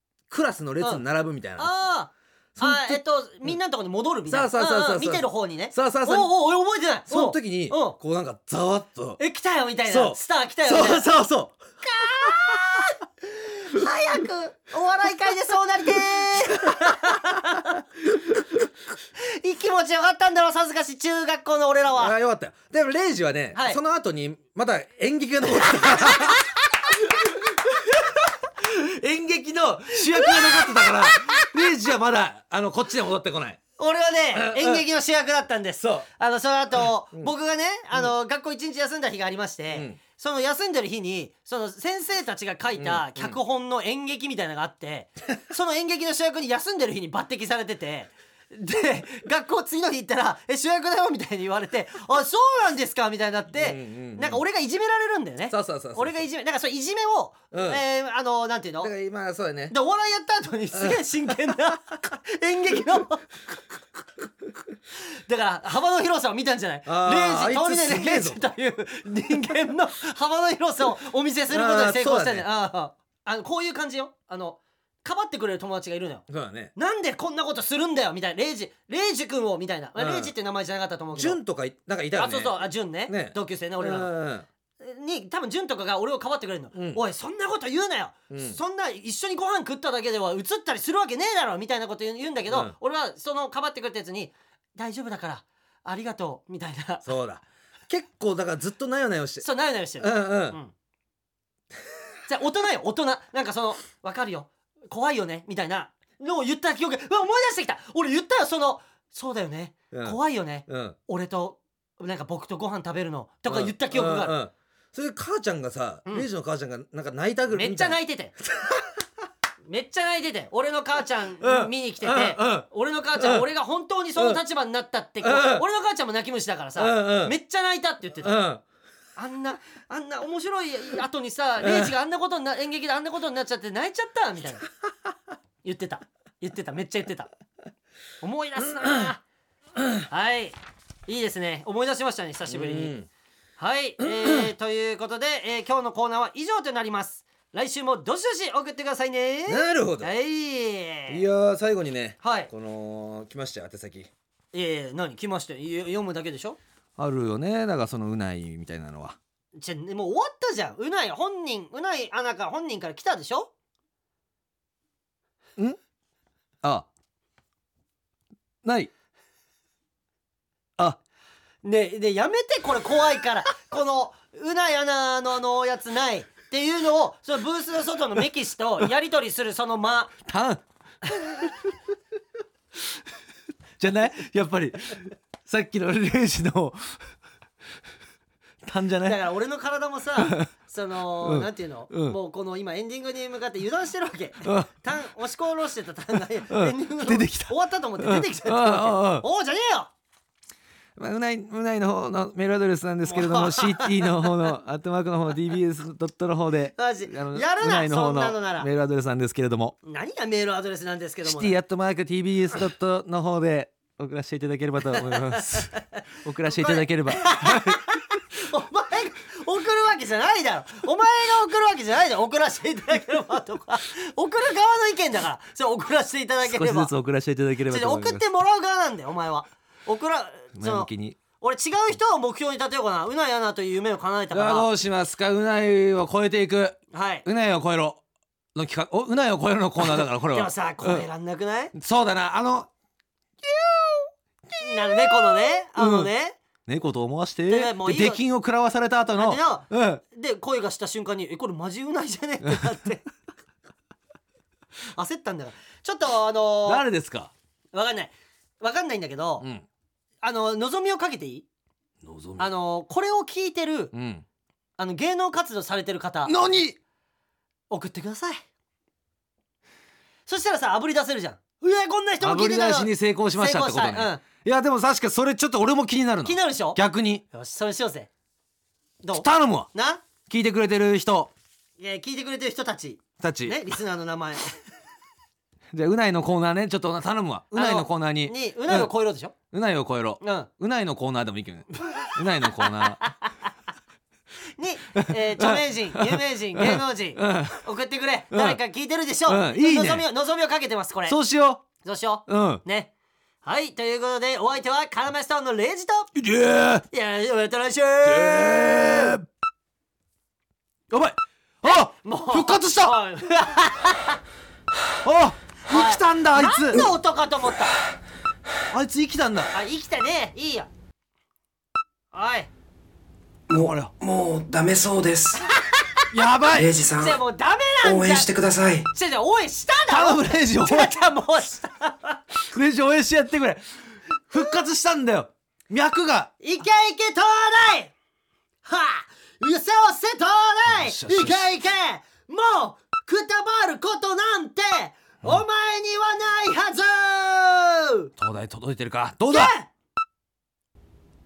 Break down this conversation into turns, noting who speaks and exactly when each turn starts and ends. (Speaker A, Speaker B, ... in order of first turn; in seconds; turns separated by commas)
Speaker A: 0.3-1.7, Speaker B: 1.6-8.0, Speaker A: 2.5-3.6, Speaker A: 4.3-6.3, Speaker A: 7.1-9.2, Speaker B: 9.2-11.1, Speaker A: 9.9-11.6, Speaker B: 11.8-17.8, Speaker A: 12.2-12.6, Speaker B: 19.1-22.1, Speaker A: 21.9-26.5, Speaker B: 23.5-23.8, Speaker B: 25.8-26.5, Speaker A: 27.1-33.6, Speaker B: 30.1-31.4, Speaker B: 33.8-58.9, Speaker A: 34.3-34.9, Speaker A: 35.8-36.1, Speaker A: 39.7-40.0, Speaker A: 42.8-43.4, Speaker A: 53.5-54.4, Speaker A: 55.5-56.2, Speaker A: 57.5-57.8, Speaker A: 58.8-59.8, Speaker B: 59.7-63.2, Speaker A: 60.7-61.0, Speaker B: 65.0-81.4, Speaker A: 66.9-68.5, Speaker A: 71.5-72.5, Speaker A: 76.3-76.7, Speaker A: 80.0-80.3, Speaker A: 81.1-84.5, Speaker B: 82.1-84.1, Speaker B: 84.8-97.0, Speaker A: 86.7-87.0, Speaker A: 88.3-88.6, Speaker A: 92.5-92.8, Speaker A: 97.0-99.5, Speaker B: 99.4-100.7, Speaker A: 100.0-100.6, Speaker B: 102.3-114.4, Speaker A: 109.9-111.0, Speaker A: 113.5-119.0, Speaker B: 117.5-118.3, Speaker B: 119.6-128.3, Speaker A: 121.4-123.5, Speaker A: 124.2-124.4, Speaker A: 125.2-125.6, Speaker A: 126.8-127.4, Speaker A: 128.2-128.6, Speaker B: 129.2-134.7, Speaker A: 131.6-131.9, Speaker B: 135.6-137.3, Speaker B: 138.2-139.2, Speaker B: 140.1-140.6, Speaker B: 141.1-142.9, Speaker A: 142.5-143.1, Speaker B: 143.6-151.2, Speaker A: 144.0-144.5, Speaker A: 149.5-150.1, Speaker A: 151.1-154.1, Speaker B: 152.2-152.5, Speaker B: 154.5-156.6, Speaker A: 157.0-159.2, Speaker B: 159.6-163.5, Speaker A: 166.6-166.9, Speaker A: 168.6-168.9, Speaker B: 171.6-180.2, Speaker A: 180.2-180.6, Speaker A: 181.3-181.6, Speaker A: 183.8-187.1, Speaker A: 188.6-189.2, Speaker B: 189.0-199.9, Speaker A: 190.2-190.5, Speaker A: 191.2-192.2, Speaker A: 194.4-194.7, Speaker A: 196.5-199.2, Speaker A: 201.0-209.8, Speaker B: 203.1-204.4, Speaker B: 206.8-208.7, Speaker B: 209.8-211.6, Speaker A: 211.2-217.8, Speaker B: 215.1-215.8, Speaker B: 216.4-226.9, Speaker A: 226.4-228.2, Speaker B: 227.7-234.7, Speaker A: 230.6-231.2, Speaker A: 234.3-238.0, Speaker B: 236.9-237.2, Speaker A: 238.5-241.1, Speaker B: 239.8-241.7, Speaker A: 241.7-242.7, Speaker A: 243.4-246.1, Speaker B: 244.6-246.4, Speaker A: 246.7-250.0, Speaker B: 247.5-248.2, Speaker B: 249.2-253.0, Speaker A: 252.4-252.8, Speaker B: 254.9-256.8, Speaker A: 256.6-257.3, Speaker B: 257.7-259.4, Speaker A: 259.4-259.6, Speaker B: 260.2-261.4, Speaker A: 262.0-262.5, Speaker B: 262.4-263.9, Speaker A: 263.9-264.2, Speaker B: 264.8-266.3, Speaker A: 266.2-266.8, Speaker B: 267.7-268.4, Speaker B: 270.3-274.2, Speaker A: 272.2-277.2, Speaker B: 276.2-278.1, Speaker B: 279.0-280.0, Speaker A: 279.1-279.7, Speaker A: 280.2-281.3, Speaker B: 281.8-284.6, Speaker A: 283.2-283.6, Speaker A: 285.7-288.9, Speaker B: 287.5-289.3, Speaker A: 289.5-293.0, Speaker B: 290.2-290.5, Speaker B: 291.8-293.3, Speaker B: 294.6-301.2, Speaker A: 294.9-297.7, Speaker A: 298.3-298.6, Speaker A: 299.3-300.1, Speaker A: 301.1-301.6, Speaker B: 301.8-302.9, Speaker A: 302.3-302.6, Speaker B: 303.4-306.1, Speaker A: 306.1-306.9, Speaker B: 306.9-309.0, Speaker A: 308.0-309.3, Speaker A: 310.9-313.0, Speaker B: 312.0-314.2, Speaker A: 315.0-316.9, Speaker B: 315.7-317.8, Speaker A: 318.7-319.5, Speaker B: 319.5-320.7, Speaker B: 322.1-322.5, Speaker C: 323.5-325.4, Speaker A: 323.6-323.9, Speaker B: 325.6-326.1, Speaker A: 326.1-326.7, Speaker C: 326.5-327.2, Speaker B: 327.0-328.3, Speaker C: 327.8-328.9, Speaker B: 328.9-332.2, Speaker A: 329.9-330.9, Speaker A: 332.5-336.3, Speaker B: 336.4-337.9, Speaker B: 338.6-348.1, Speaker A: 340.6-341.5, Speaker A: 348.2-349.5, Speaker B: 349.3-349.7